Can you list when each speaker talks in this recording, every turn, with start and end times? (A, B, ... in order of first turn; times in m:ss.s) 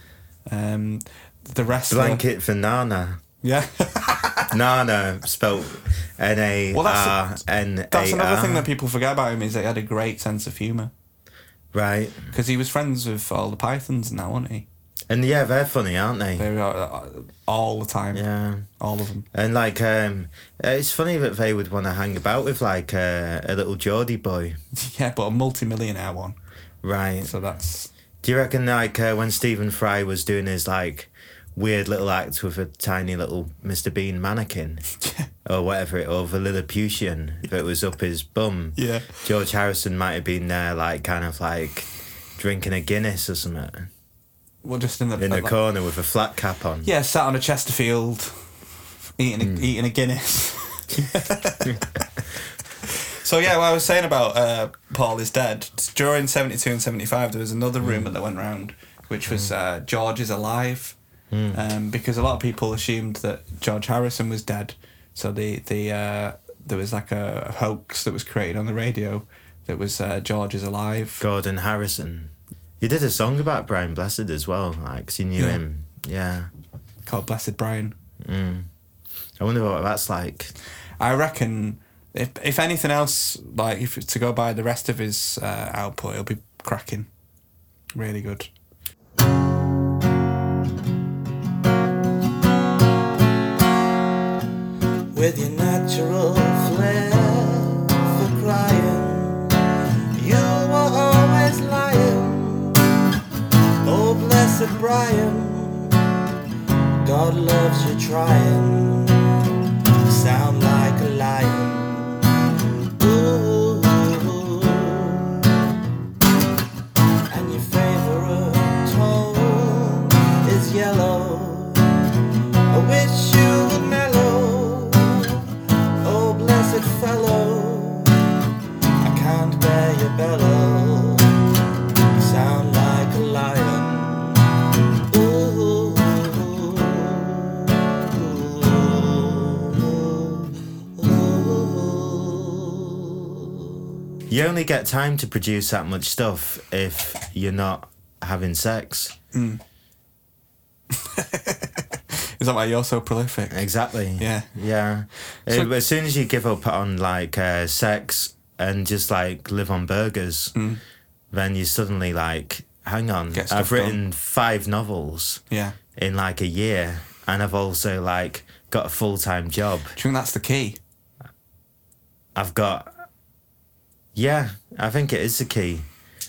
0:00.5-0:02.2 A
0:01.9-0:03.2 B
0:03.4-0:04.5 A
0:04.5-0:08.7 B
0:06.7-0:07.2 A
0:07.9-0:10.9 A
0:11.7-0:12.3 B
0:12.3-0:14.7 A
0:15.1-0:16.5 B
0:16.4-0:18.2 A
0:18.1-0:18.7 B
0:18.8-0:19.3 A
0:19.3-0:24.6 B
0:24.7-0:26.4 A
0:26.8-0:27.4 B
0:27.2-0:27.9 A
0:28.2-0:34.8 B
0:35.0-0:35.3 A
0:35.4-0:43.9 B
0:38.8-0:39.2 A
0:44.6-0:45.6 A
0:45.2-0:46.9 B
0:46.8-0:48.5 A
0:49.2-0:52.1 A
0:49.4-0:49.6 B
0:52.8-1:01.0 A
0:57.8-0:58.1 B
1:01.3-1:01.6 B
1:01.5-1:11.2 A
1:11.2-1:16.5 B
1:17.1-1:18.0 A
1:18.2-1:18.7 B
1:19.4-1:20.5 B
1:21.0-1:27.1 A
1:28.0-1:28.5 A
1:38.2-1:39.3 C
1:40.3-1:42.4 C
1:44.0-1:45.4 C
1:47.1-1:48.8 C
1:50.1-1:52.0 C
1:53.1-1:53.6 C
1:57.3-2:01.2 C
2:02.7-2:03.2 C
2:06.1-2:07.1 C
2:09.2-2:10.3 C
2:24.3-2:29.2 B
2:29.3-2:29.6 A
2:30.9-2:33.7 A
2:33.5-2:40.6 B
2:34.2-2:34.5 A
2:40.6-2:40.8 A
2:41.3-2:45.4 B
2:43.3-2:44.0 A
2:45.5-2:45.8 A
2:46.0-2:50.0 B
2:50.0-2:50.8 A
2:52.4-2:52.9 B
2:54.2-2:55.9 B